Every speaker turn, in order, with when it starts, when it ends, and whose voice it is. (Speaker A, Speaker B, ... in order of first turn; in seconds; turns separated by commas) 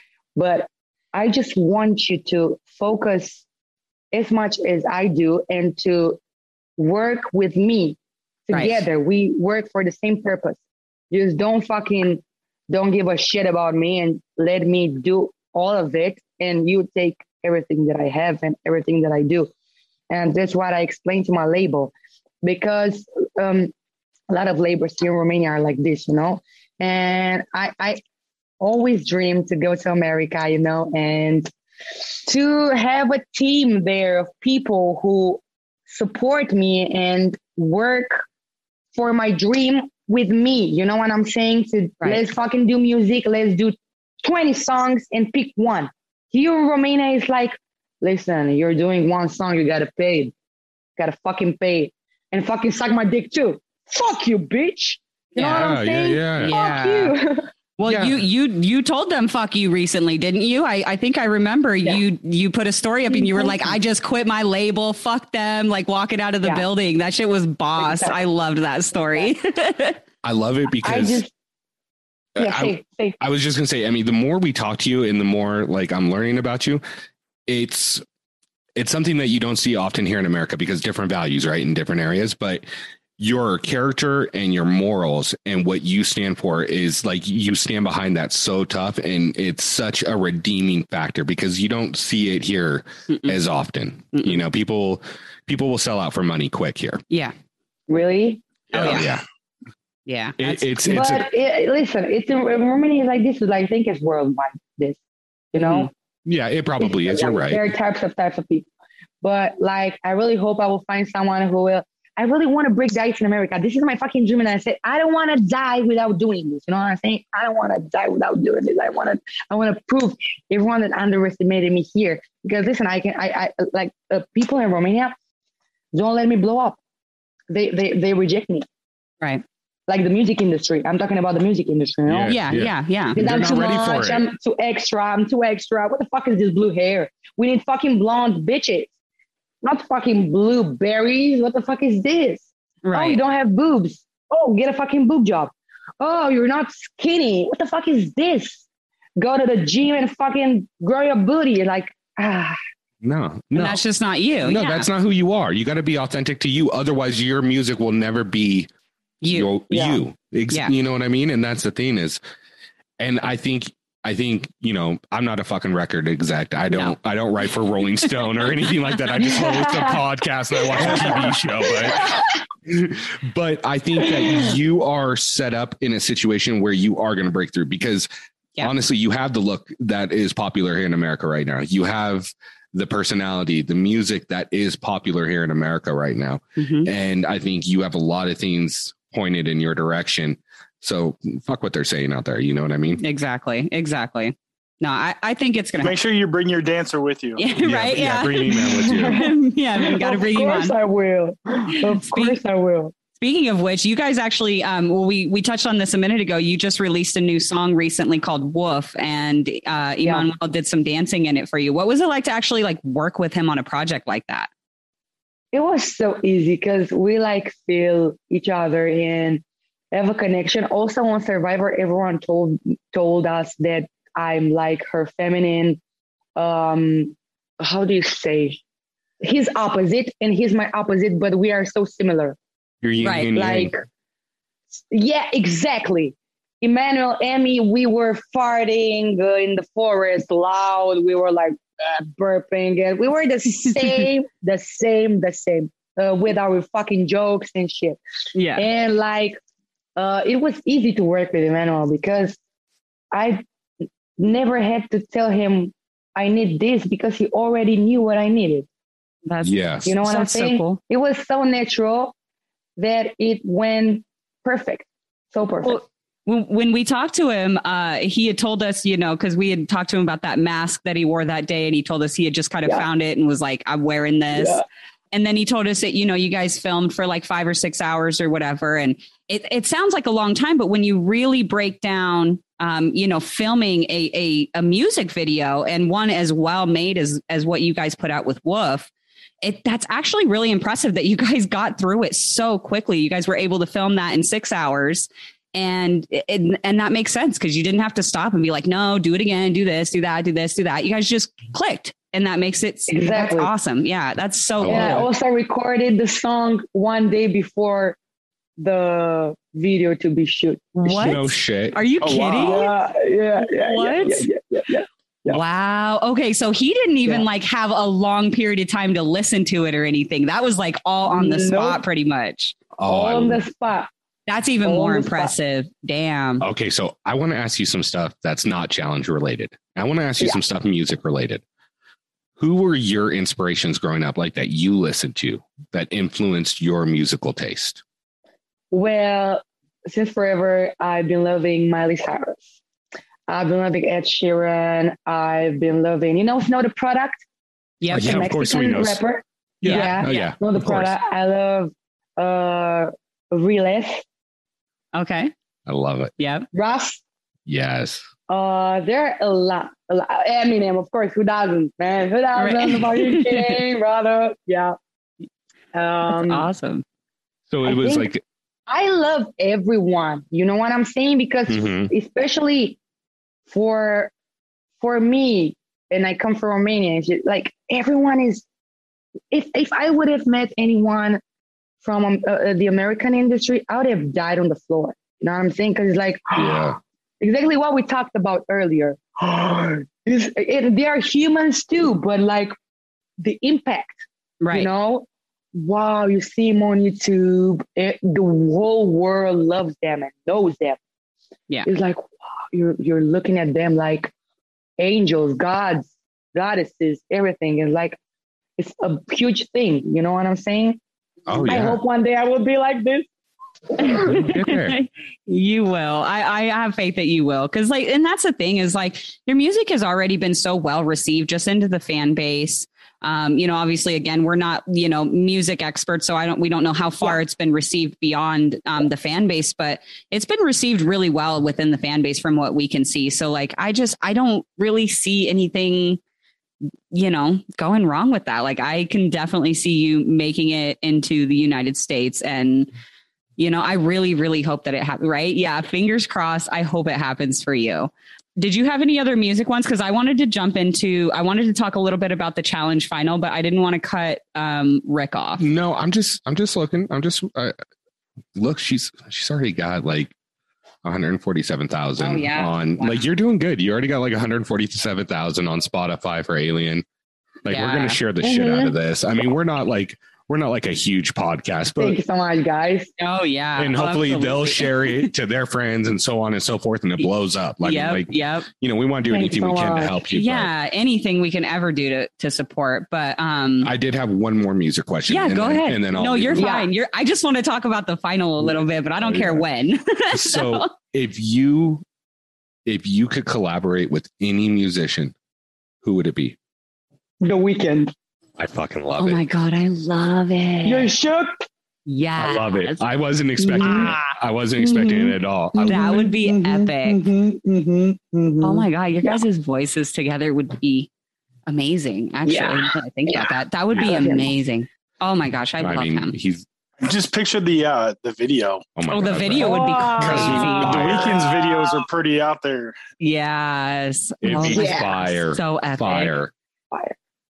Speaker A: 0.3-3.4, Speaker A: 4.1-6.2, Speaker A: 6.8-8.0, Speaker A: 8.5-10.6, Speaker B: 8.5-8.8, Speaker A: 11.1-19.5, Speaker A: 20.1-23.7, Speaker A: 24.3-28.0, Speaker A: 28.6-31.5, Speaker A: 32.2-38.2, Speaker A: 38.9-50.3, Speaker A: 51.0-57.5, Speaker B: 55.4-55.6, Speaker C: 55.4-56.5, Speaker B: 56.5-57.1, Speaker B: 57.8-70.0, Speaker C: 57.8-58.2, Speaker A: 63.1-63.7, Speaker A: 67.8-68.2, Speaker C: 70.2-71.2, Speaker A: 70.8-71.3, Speaker C: 72.3-76.8, Speaker A: 72.4-73.2, Speaker C: 77.5-78.0, Speaker C: 78.8-82.6, Speaker C: 83.2-97.0, Speaker B: 93.1-93.4, Speaker B: 94.1-94.4, Speaker B: 97.1-97.3, Speaker A: 97.9-99.0, Speaker B: 98.7-99.0, Speaker C: 98.7-99.2, Speaker B: 100.0-101.0, Speaker C: 100.4-101.2, Speaker A: 100.9-105.0, Speaker A: 105.5-105.9, Speaker B: 105.6-105.9, Speaker C: 106.2-107.6, Speaker A: 106.8-108.7, Speaker A: 109.2-125.1, Speaker A: 125.9-126.8, Speaker A: 127.5-128.7, Speaker A: 129.9-132.4, Speaker C: 132.1-134.2, Speaker B: 132.3-133.2, Speaker A: 133.1-138.9, Speaker A: 139.6-148.6, Speaker B: 142.8-143.2, Speaker A: 149.2-152.6, Speaker C: 153.0-153.8, Speaker B: 153.5-154.9, Speaker C: 154.4-158.7, Speaker B: 159.2-159.5, Speaker C: 159.3-162.2, Speaker A: 159.7-160.0, Speaker C: 163.0-172.1, Speaker B: 166.7-166.9, Speaker A: 169.2-170.0, Speaker A: 170.6-171.1, Speaker A: 171.6-172.3, Speaker C: 172.7-178.1, Speaker A: 174.1-174.5, Speaker C: 178.6-193.0, Speaker B: 186.6-186.9, Speaker B: 193.0-195.9, Speaker D: 195.8-197.4, Speaker B: 197.4-200.7, Speaker C: 197.6-199.3, Speaker A: 198.5-202.9, Speaker B: 201.7-202.4, Speaker B: 203.2-214.5, Speaker A: 215.5-225.8, Speaker A: 226.3-228.6, Speaker A: 229.2-232.4, Speaker C: 232.8-233.7, Speaker B: 233.0-233.3, Speaker A: 233.3-233.8, Speaker A: 234.7-248.0, Speaker B: 243.6-244.1, Speaker B: 248.3-248.7, Speaker A: 248.6-249.4, Speaker A: 249.9-252.4, Speaker A: 253.1-253.4, Speaker A: 254.2-258.7, Speaker B: 259.2-260.8, Speaker C: 259.4-259.9, Speaker A: 259.8-262.1, Speaker A: 262.8-265.8, Speaker B: 265.6-274.6, Speaker A: 274.3-274.6, Speaker B: 275.1-288.9, Speaker B: 289.4-305.1, Speaker A: 302.9-303.5, Speaker C: 304.6-305.1, Speaker A: 304.7-308.0, Speaker A: 308.6-311.1, Speaker B: 310.8-312.7, Speaker C: 310.9-311.8, Speaker D: 312.0-312.7, Speaker A: 312.4-315.3, Speaker B: 313.5-314.3, Speaker B: 315.3-322.6, Speaker A: 321.1-321.8, Speaker C: 322.8-323.4, Speaker A: 322.9-323.9, Speaker B: 324.3-326.4, Speaker A: 324.6-325.3, Speaker C: 326.4-331.4, Speaker C: 332.4-337.8, Speaker A: 338.7-342.5, Speaker A: 343.3-347.2, Speaker B: 347.8-348.3, Speaker C: 347.9-349.0, Speaker A: 347.9-354.0, Speaker C: 349.6-350.9, Speaker B: 349.6-350.3, Speaker B: 354.9-355.3, Speaker C: 355.7-356.1, Speaker B: 356.2-356.5, Speaker A: 356.5-357.0, Speaker C: 357.4-358.1, Speaker A: 358.3-364.8, Speaker B: 362.4-363.6, Speaker A: 365.7-366.5, Speaker B: 366.1-366.8, Speaker C: 367.5-368.2, Speaker A: 367.6-368.1, Speaker A: 368.7-372.8, Speaker C: 371.5-371.9, Speaker A: 373.5-374.1, Speaker A: 374.8-378.4, Speaker A: 379.3-381.2, Speaker A: 381.8-392.5, Speaker C: 386.3-386.8, Speaker A: 393.2-400.8, Speaker B: 394.4-394.7, Speaker A: 401.6-404.1, Speaker A: 404.8-408.0, Speaker A: 408.6-410.8, Speaker C: 411.3-411.8, Speaker A: 411.4-413.1, Speaker A: 413.7-414.3, Speaker C: 413.9-414.8, Speaker B: 414.1-436.0, Speaker B: 436.9-442.7, Speaker B: 443.4-455.4, Speaker C: 455.4-457.5, Speaker C: 458.3-460.1, Speaker C: 460.8-466.8, Speaker A: 462.0-462.9, Speaker C: 467.4-472.0, Speaker B: 467.5-468.0, Speaker A: 468.2-468.7, Speaker A: 471.8-472.9, Speaker B: 473.0-475.1, Speaker C: 473.6-480.5, Speaker B: 477.6-478.5, Speaker A: 479.1-480.0, Speaker B: 480.1-483.7, Speaker C: 483.6-486.5, Speaker B: 485.1-490.7, Speaker A: 486.3-486.7, Speaker C: 489.0-489.4, Speaker C: 490.1-491.8, Speaker C: 492.6-495.1, Speaker C: 495.8-496.4, Speaker A: 497.2-497.9, Speaker C: 498.4-499.2, Speaker B: 499.0-500.9, Speaker A: 500.6-501.5, Speaker B: 501.9-502.8, Speaker C: 502.2-506.1, Speaker A: 503.4-504.0, Speaker B: 503.6-504.1, Speaker A: 504.6-509.2, Speaker B: 505.6-507.0, Speaker B: 508.4-510.9, Speaker B: 511.5-516.1, Speaker A: 512.2-514.3, Speaker C: 515.6-516.5, Speaker D: 516.8-518.6, Speaker C: 518.8-521.2, Speaker B: 518.9-521.0, Speaker A: 519.4-521.7, Speaker D: 520.0-522.8, Speaker B: 523.0-526.1, Speaker C: 524.2-526.3, Speaker A: 524.4-524.9